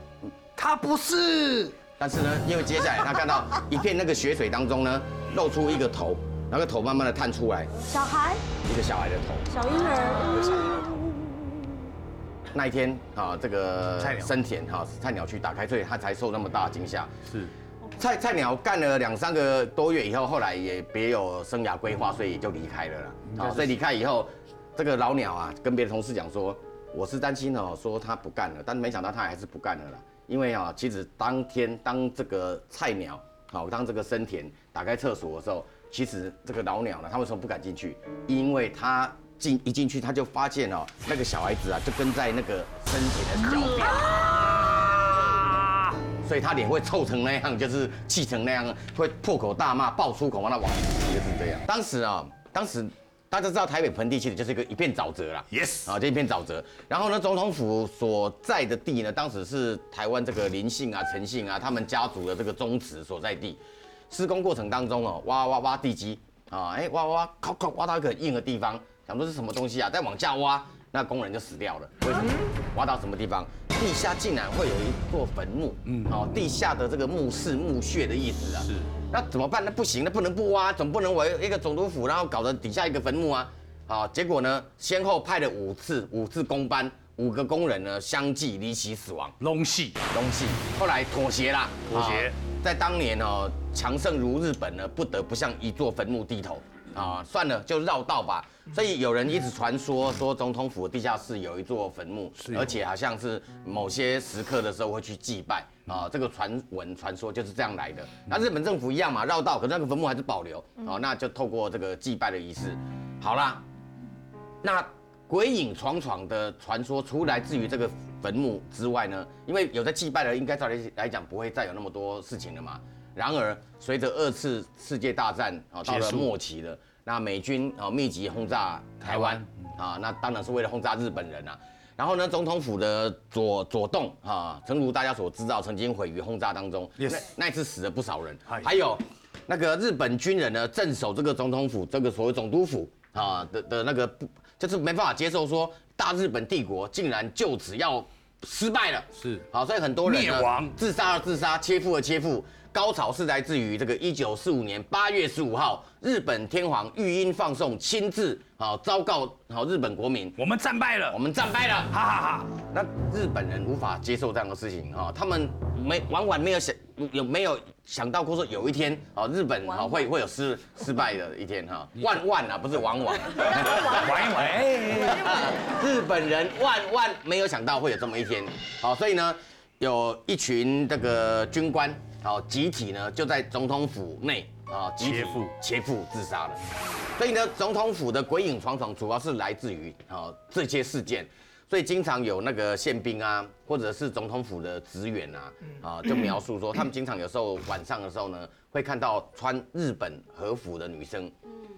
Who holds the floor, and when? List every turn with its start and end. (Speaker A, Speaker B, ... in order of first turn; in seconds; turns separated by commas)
Speaker A: 0.6-1.7, Speaker B: 2.0-7.7, Speaker C: 7.9-8.4, Speaker B: 8.6-9.5, Speaker C: 9.5-11.4, Speaker B: 10.2-11.0, Speaker B: 12.5-17.1, Speaker A: 14.0-14.3, Speaker B: 17.9-44.2, Speaker A: 23.3-23.7, Speaker A: 44.1-45.7, Speaker B: 46.2-89.4, Speaker A: 55.5-55.9, Speaker A: 75.9-76.1, Speaker A: 89.4-90.0, Speaker B: 90.1-113.6, Speaker A: 91.9-92.3, Speaker A: 102.4-102.7, Speaker B: 114.6-160.4, Speaker A: 125.9-126.3, Speaker A: 129.1-129.4, Speaker A: 137.0-137.2, Speaker A: 150.1-150.7, Speaker A: 160.4-161.2, Speaker B: 161.1-161.9, Speaker A: 161.9-162.5, Speaker B: 162.7-186.6, Speaker A: 173.6-175.3, Speaker A: 185.0-185.5, Speaker B: 187.1-201.3